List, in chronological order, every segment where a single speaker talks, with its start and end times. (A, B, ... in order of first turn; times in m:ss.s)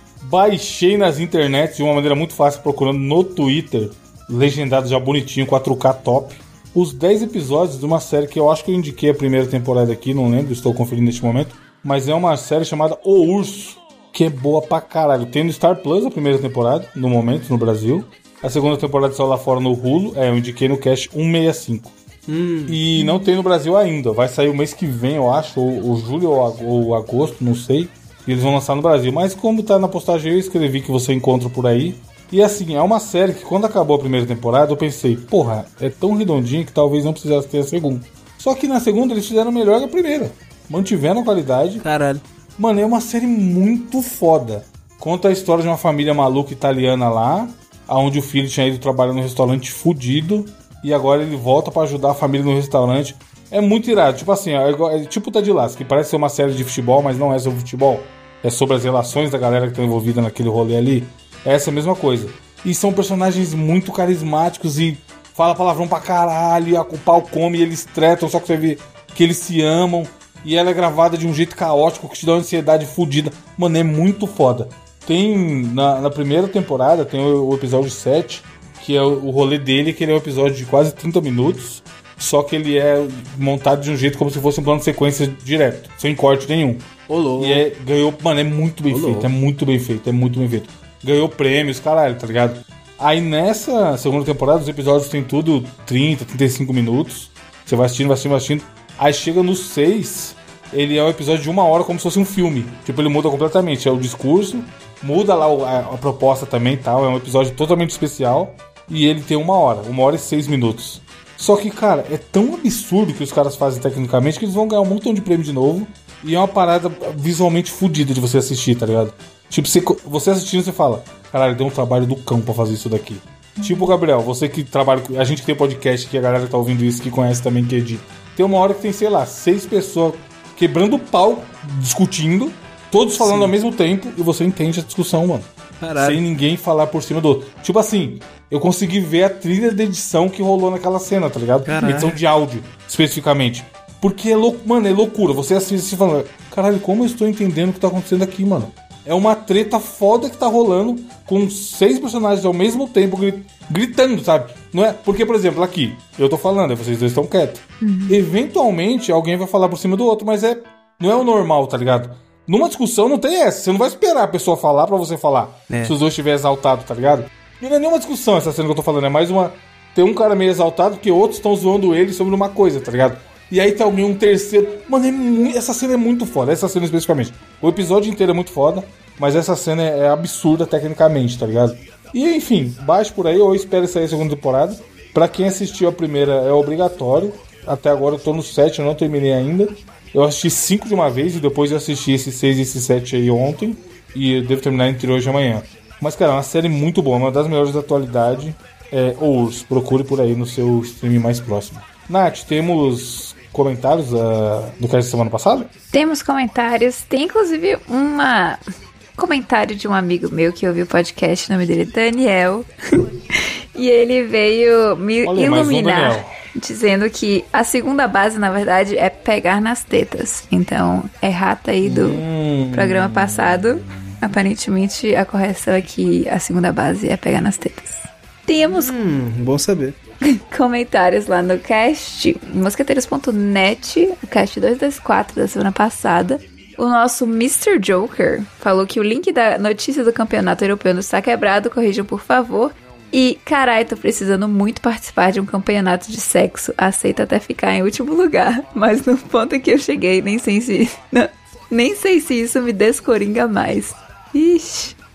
0:00.2-0:22.0 A
0:22.3-0:22.8 B
0:22.7-0:41.8 A
0:41.8-0:42.2 B
0:42.6-3:25.7 A
1:27.1-1:27.6 B
1:28.9-1:29.3 B
2:13.2-2:13.5 B
2:15.8-2:16.2 B
2:21.7-2:22.2 B
2:37.8-2:38.2 C
2:45.7-2:46.0 B
3:25.9-3:28.6 C
3:29.2-3:48.9 C
3:35.2-3:36.3 A
3:41.8-3:44.1 A
3:48.7-3:50.0 B
3:50.2-4:15.0 C